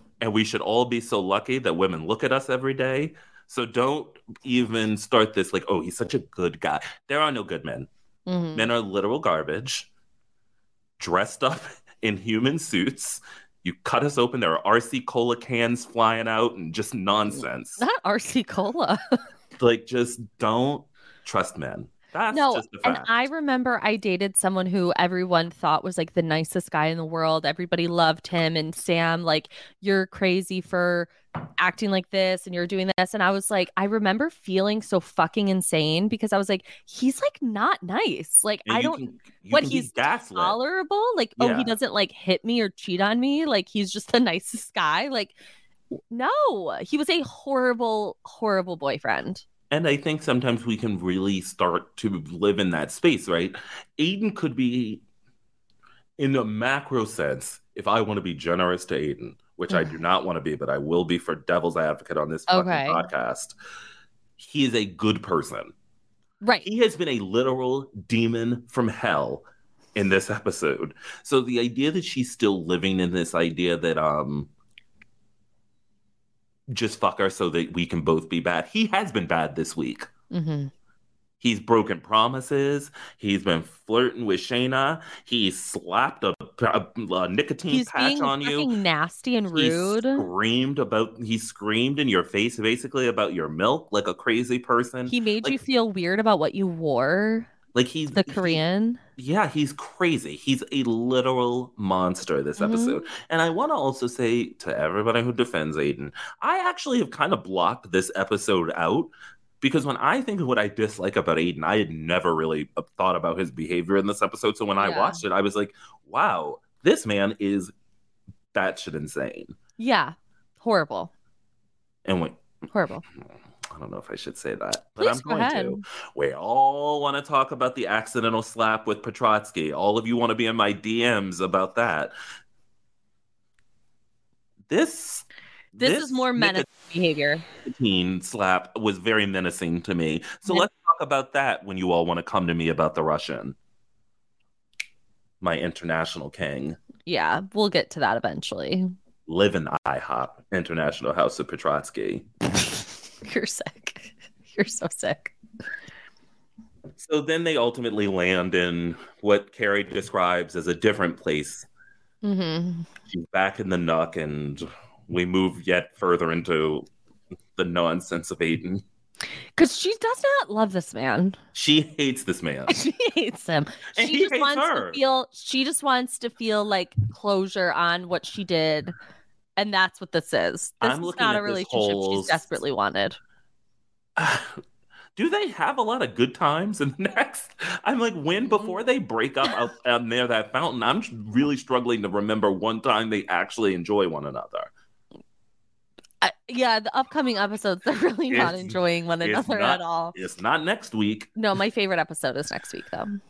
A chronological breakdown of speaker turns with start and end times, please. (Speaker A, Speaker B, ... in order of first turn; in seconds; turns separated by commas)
Speaker A: 0.2-7.9, Speaker B: 8.3-8.7, Speaker A: 8.6-9.9, Speaker A: 11.0-17.8, Speaker B: 17.3-19.2, Speaker A: 19.6-23.2, Speaker B: 22.3-45.3, Speaker A: 38.6-40.6, Speaker A: 41.4-41.7, Speaker B: 46.1-49.4, Speaker A: 49.7-55.0, Speaker A: 56.2-63.5, Speaker B: 59.7-60.0, Speaker B: 62.5-63.0, Speaker A: 64.4-65.7, Speaker B: 66.4-66.7, Speaker A: 66.7-74.5, Speaker A: 76.7-80.1, Speaker B: 80.3-80.7, Speaker A: 81.4-88.7, Speaker B: 87.7-90.3, Speaker A: 89.5-95.6, Speaker B: 95.1-97.5, Speaker A: 97.7-98.6, Speaker B: 98.1-99.0, Speaker A: 99.2-117.7, Speaker B: 102.6-103.0, Speaker B: 114.8-115.2, Speaker A: 118.5-119.5, Speaker B: 119.8-121.1, Speaker A: 122.0-122.4, Speaker B: 122.7-123.0, Speaker A: 123.7-132.1, Speaker B: 125.0-125.8, Speaker A: 134.7-136.7, Speaker B: 135.8-137.4, Speaker A: 137.6-143.6, Speaker A: 145.4-146.8, Speaker B: 147.1-148.9, Speaker A: 149.3-152.3, Speaker B: 153.2-155.3, Speaker A: 157.0-161.7, Speaker B: 162.2-162.9, Speaker A: 163.1-166.9, Speaker A: 167.6-168.8, Speaker B: 169.6-171.4, Speaker A: 171.6-172.7, Speaker B: 172.7-178.9, Speaker A: 173.9-175.0, Speaker B: 179.6-183.2, Speaker A: 180.8-182.5, Speaker A: 184.2-184.6, Speaker A: 185.2-194.7, Speaker B: 188.5-188.8, Speaker B: 196.2-200.2, Speaker A: 198.3-201.3, Speaker B: 201.4-203.2